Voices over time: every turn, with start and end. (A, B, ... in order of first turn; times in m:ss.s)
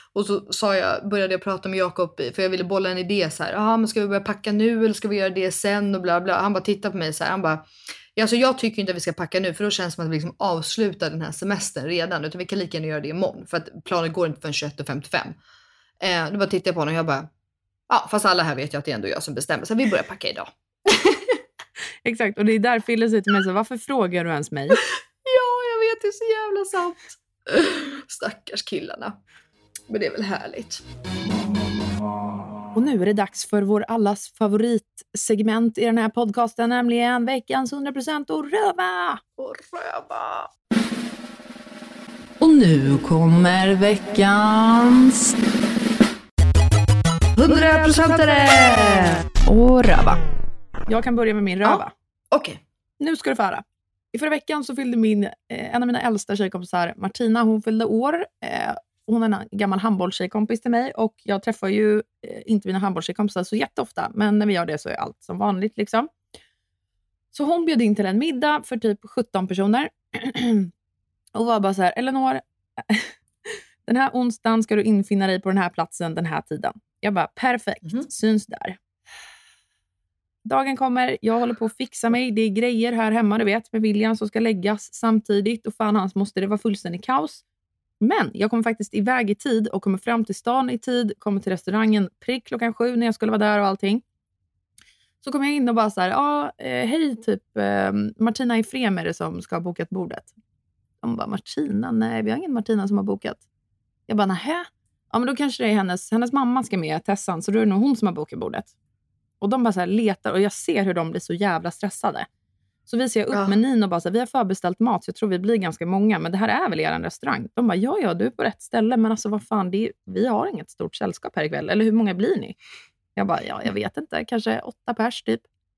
0:00.2-0:15.4 A
0:16.0-0:17.3 A
0:17.9-0:21.4 A
0:22.0-0:24.8 B
0:25.2-0:29.2 A
0:29.9-0:30.8 A
0:32.8-0:39.2 B
0:39.4-0:40.5 A
0:42.4-0:45.2 B
0:47.4-0:48.8 A
0:49.5-0:50.2 B
0:50.9-0:51.9 B
0:51.6-0:52.6 A
0:53.0-1:06.1 B
1:07.3-1:10.7 B
1:11.4-1:18.8 B
1:20.4-1:27.4 B
1:28.0-1:34.0 B
1:35.2-1:40.3 B
1:41.0-1:43.4 B
1:44.1-1:48.7 B
1:49.4-1:52.3 B
1:52.9-2:02.6 B
1:53.3-1:53.6 A
2:03.2-2:05.4 B